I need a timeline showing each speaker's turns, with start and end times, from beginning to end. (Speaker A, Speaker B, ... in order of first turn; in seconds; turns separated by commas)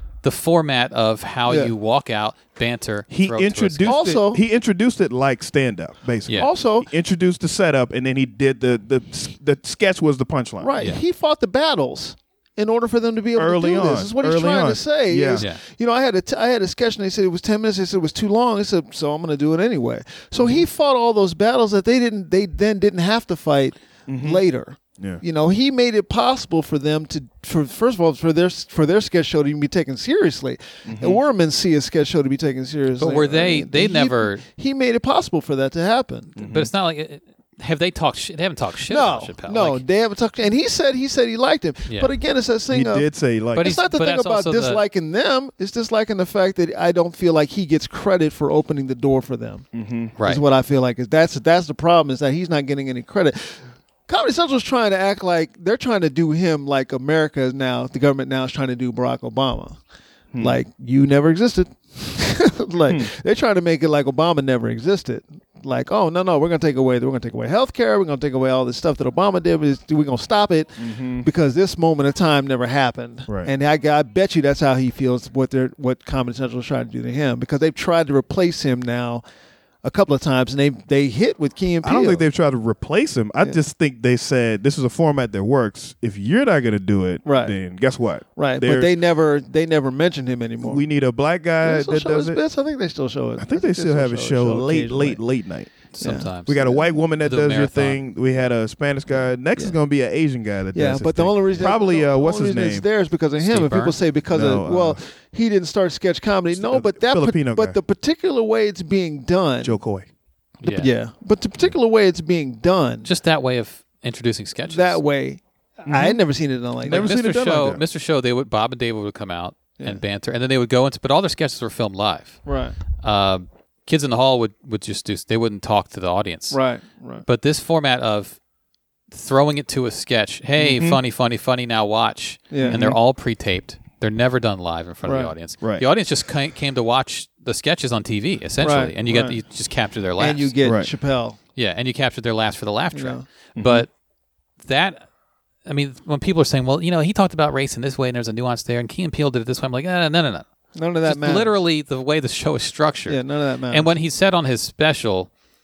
Speaker A: 0.2-4.0, Speaker B: 3.1-10.7, Speaker C: 3.8-4.4, Speaker C: 6.3-6.9, Speaker C: 10.6-36.4, Speaker B: 13.3-15.4, Speaker B: 20.4-20.6, Speaker B: 24.1-24.4, Speaker B: 30.9-31.2, Speaker A: 33.0-34.4, Speaker B: 36.4-36.7, Speaker A: 36.5-39.8, Speaker C: 38.9-49.6, Speaker B: 42.7-43.7, Speaker A: 43.5-44.8, Speaker B: 49.7-50.1, Speaker A: 50.2-50.4, Speaker C: 50.2-59.8, Speaker B: 60.3-60.6, Speaker C: 60.4-79.2, Speaker B: 70.8-71.3, Speaker B: 73.3-73.5, Speaker C: 79.8-82.2, Speaker B: 81.8-89.0, Speaker C: 87.2-87.5, Speaker C: 88.3-90.8, Speaker B: 90.6-92.4, Speaker C: 91.6-95.2, Speaker B: 93.4-95.7, Speaker A: 95.9-98.0, Speaker C: 96.0-96.3, Speaker B: 96.5-102.8, Speaker C: 100.7-109.8, Speaker A: 103.4-104.0, Speaker B: 104.3-105.0, Speaker B: 106.5-107.8, Speaker B: 109.6-110.1, Speaker A: 110.6-110.9, Speaker C: 110.6-113.1, Speaker A: 113.0-115.0, Speaker C: 114.7-117.1, Speaker B: 115.8-116.2, Speaker B: 116.8-117.8, Speaker A: 116.9-122.4, Speaker C: 122.5-122.8, Speaker A: 123.0-126.6, Speaker C: 126.5-127.2, Speaker A: 127.2-128.4, Speaker A: 129.1-140.5, Speaker B: 130.6-131.0, Speaker C: 132.5-132.8, Speaker B: 132.6-133.0, Speaker C: 135.0-135.3, Speaker C: 138.6-139.4, Speaker C: 140.2-141.4, Speaker B: 140.6-140.9, Speaker A: 141.6-143.9, Speaker C: 142.9-143.2, Speaker B: 143.6-143.8, Speaker A: 144.6-145.0, Speaker A: 145.7-150.4, Speaker C: 150.7-151.6, Speaker A: 151.0-155.3, Speaker C: 153.1-153.9